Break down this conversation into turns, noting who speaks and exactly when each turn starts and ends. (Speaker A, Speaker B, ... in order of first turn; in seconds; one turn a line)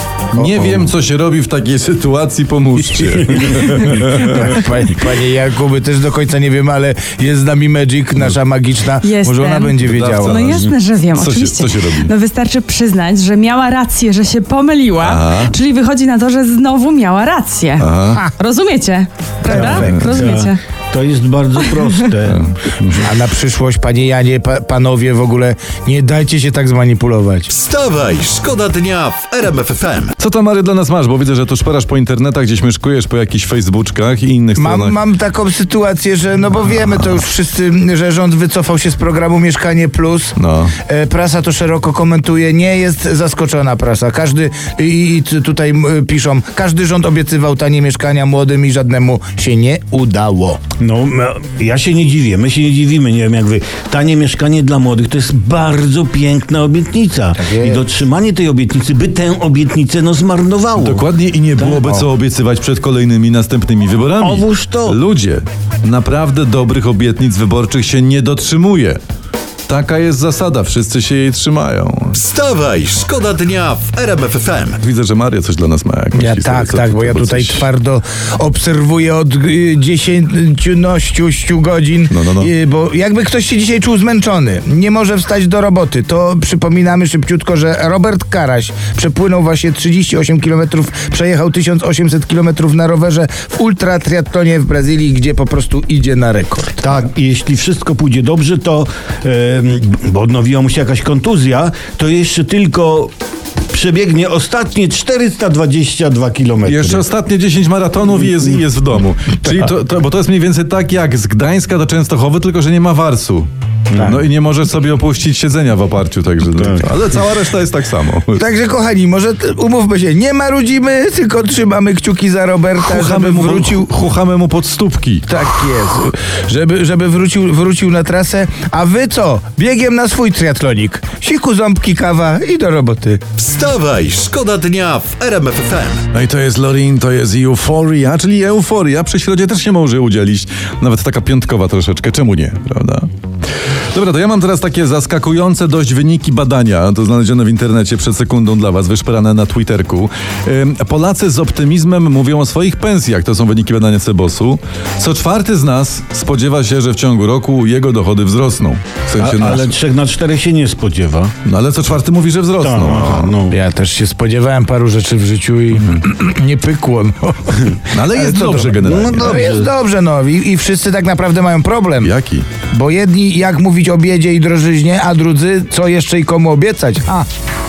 Speaker A: 0.3-0.9
Speaker B: 0.3-4.5
Speaker A: 4.1-10.6
Speaker C: 8.9-20.6
Speaker B: 9.8-12.1
Speaker B: 15.0-15.5
Speaker B: 17.8-18.2
Speaker A: 19.4-20.0
Speaker D: 19.5-23.0
Speaker B: 19.5-20.3
Speaker C: 21.6-21.9
Speaker B: 22.2-23.0
Speaker A: 22.9-27.5
Speaker E: 27.5-30.1
Speaker B: 30.2-35.0
Speaker A: 34.5-50.6
Speaker B: 40.4-40.8
Speaker D: 50.8-61.0
Speaker A: 57.4-57.8
Speaker B: 60.8-69.0
Speaker D: 64.2-65.0
Speaker B: 69.7-72.2
Speaker E: 72.1-74.8
Speaker B: 74.8-77.7
Speaker A: 76.1-96.8
Speaker B: 82.1-82.5
Speaker D: 96.8-103.1
Speaker D: 103.7-107.0
Speaker B: 106.7-118.4
Speaker D: 113.9-114.2
Speaker D: 116.5-116.9
Speaker A: 118.3-123.9
Speaker B: 122.8-125.3
Speaker A: 125.3-133.2
Speaker E: 133.4-136.0
Speaker B: 136.1-143.1
Speaker B: 143.9-159.7
Speaker D: 159.2-161.3
Speaker B: 161.4-163.4
Speaker D: 162.6-163.6
Speaker A: 163.5-172.1
Speaker B: 167.9-169.5
Speaker D: 168.8-169.7
Speaker B: 172.0-172.5
Speaker A: 172.7-177.3